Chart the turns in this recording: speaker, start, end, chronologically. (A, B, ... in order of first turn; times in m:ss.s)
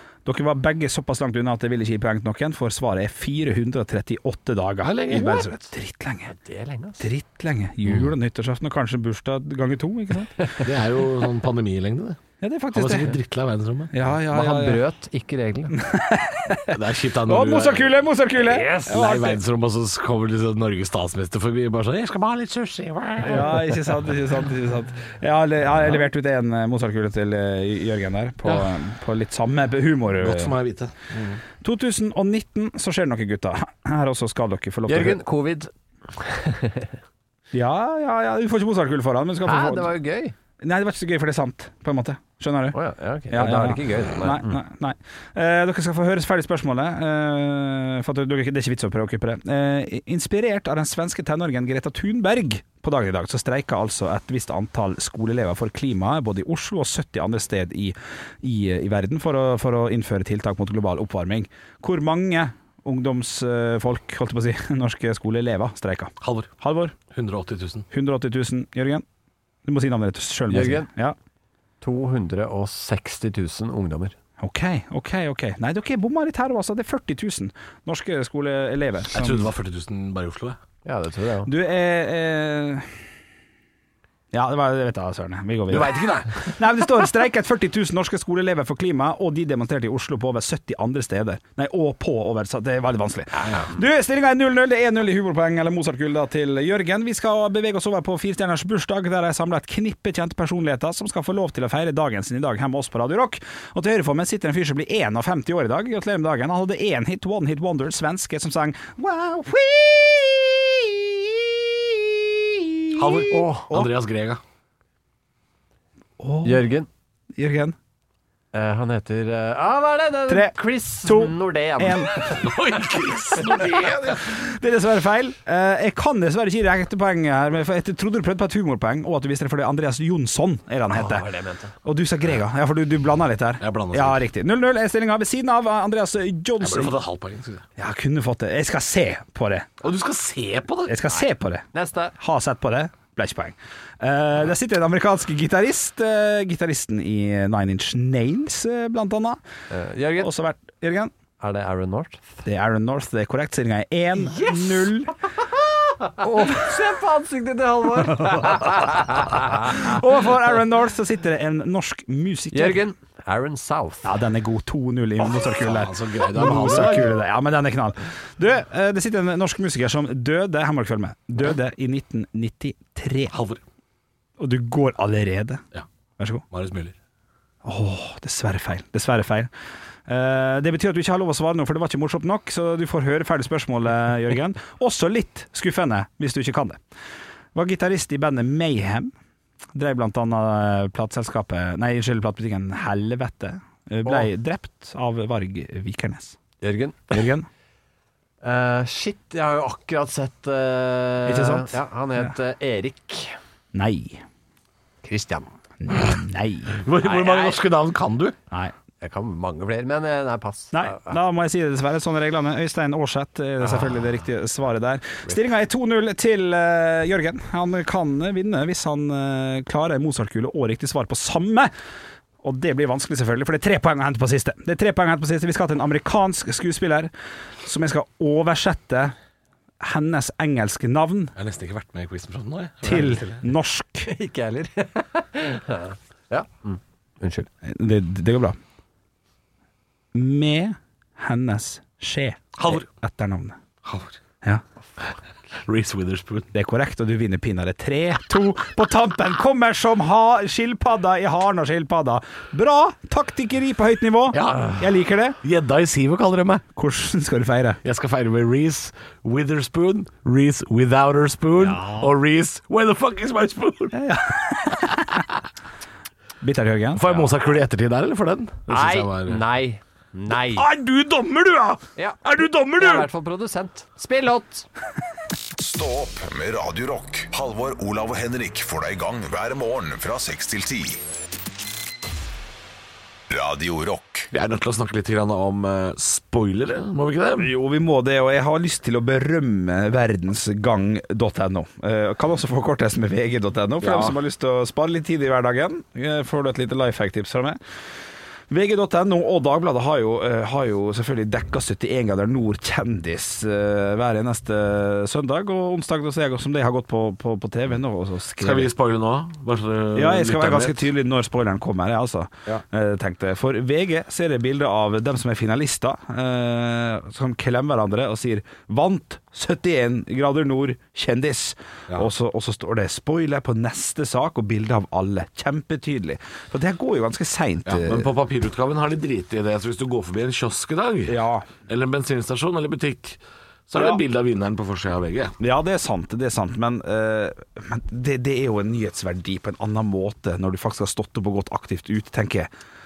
0:00.3-0:06.3 A
0:04.8-0:05.5 B
0:06.3-0:07.0 C
0:07.0-0:10.6 A
0:10.6-0:12.2 B
0:12.4-0:13.1 A
0:12.7-0:13.9 B
0:13.9-0:14.8 A
0:14.3-0:15.8 C
0:15.8-0:19.4 A
0:16.7-0:18.0 B
0:18.5-0:18.9 C
0:18.7-0:23.6 B
0:23.2-0:30.6 A
0:30.2-0:31.2 B
0:31.6-0:35.2 A
0:34.9-0:36.9 C
0:37.5-0:39.9 A
0:39.4-0:40.4 C
0:40.6-0:42.8 A
0:42.7-0:44.6 C
0:43.3-1:07.0 A
1:06.2-1:06.5 B
1:07.1-1:07.9 B
1:07.9-1:09.0 A
1:09.7-1:11.2 A
1:10.5-1:10.9 C
1:11.8-1:14.2 C
1:14.4-1:19.5 A
1:19.1-1:20.6 B
1:20.8-1:21.5 C
1:21.5-1:22.9 A
1:24.3-1:53.9 A
1:25.7-1:26.5 B
1:33.4-1:33.7 B
1:53.0-1:54.4 B
1:53.3-1:53.7 C
1:56.2-1:56.6 A
1:56.4-1:56.9 C
1:57.4-1:57.8 A
1:58.5-2:02.4 C
2:00.3-2:02.2 A
2:02.2-2:04.3 B
2:04.2-2:11.3 A
2:10.9-2:11.7 C
2:11.8-2:17.0 A
2:13.6-2:14.2 B
2:16.6-2:17.7 B
2:17.8-2:19.7 A
2:19.8-2:21.0 B
2:20.9-2:21.6 A
2:21.1-2:22.1 C
2:22.2-2:29.4 A
2:29.7-2:30.3 C
2:30.2-2:31.1 A
2:31.4-2:32.4 C
2:32.4-2:35.2 A
2:34.2-2:39.8 C
2:39.6-2:42.8 A
2:42.5-2:44.1 C
2:44.0-2:53.3 A
2:45.2-2:47.2 B
2:53.3-2:53.6 B
2:54.4-2:55.6 A
2:56.2-2:56.4 A
2:56.5-2:57.0 B
2:57.6-2:59.5 A
3:00.1-3:06.8 A
3:07.6-3:09.1 A
3:09.8-3:16.4 A
3:16.6-3:17.2 C
3:17.1-3:17.5 A
3:18.4-3:23.4 C
3:21.3-3:22.3 A
3:23.7-3:24.2 A
3:25.0-3:25.5 C
3:25.8-3:26.8 A
3:26.8-3:28.4 B
3:27.0-3:27.6 C
3:29.0-3:31.2 C
3:30.7-3:41.7 A
3:42.4-3:47.1 A
3:47.6-3:49.2 A
3:49.8-3:51.3 A
3:51.4-3:53.4 B
3:52.8-3:54.1 A
3:52.9-3:53.2 C
3:54.1-3:57.5 C
3:57.6-3:58.6 A
4:00.1-4:03.6 A
4:02.6-4:02.8 B
4:03.8-4:04.2 B
4:05.5-4:06.5 B
4:06.5-4:15.4 A
4:14.3-4:16.6 B
4:16.8-4:17.8 A
4:17.8-4:24.2 B
4:21.6-4:22.1 A
4:23.9-4:25.2 A
4:26.4-4:27.1 A
4:27.0-4:29.4 B
4:28.7-4:30.7 C
4:30.5-4:33.1 B
4:32.0-4:34.7 C
4:35.6-4:41.0 D
4:43.3-4:44.3 D
4:44.3-4:47.5 B
4:47.4-4:57.6 A
4:53.8-4:54.2 B
4:58.5-5:08.7 A
5:08.4-5:10.9 B
5:10.0-5:28.1 A
5:27.7-5:35.4 B
5:31.1-5:31.5 A
5:33.8-5:34.0 A
5:35.4-5:42.5 A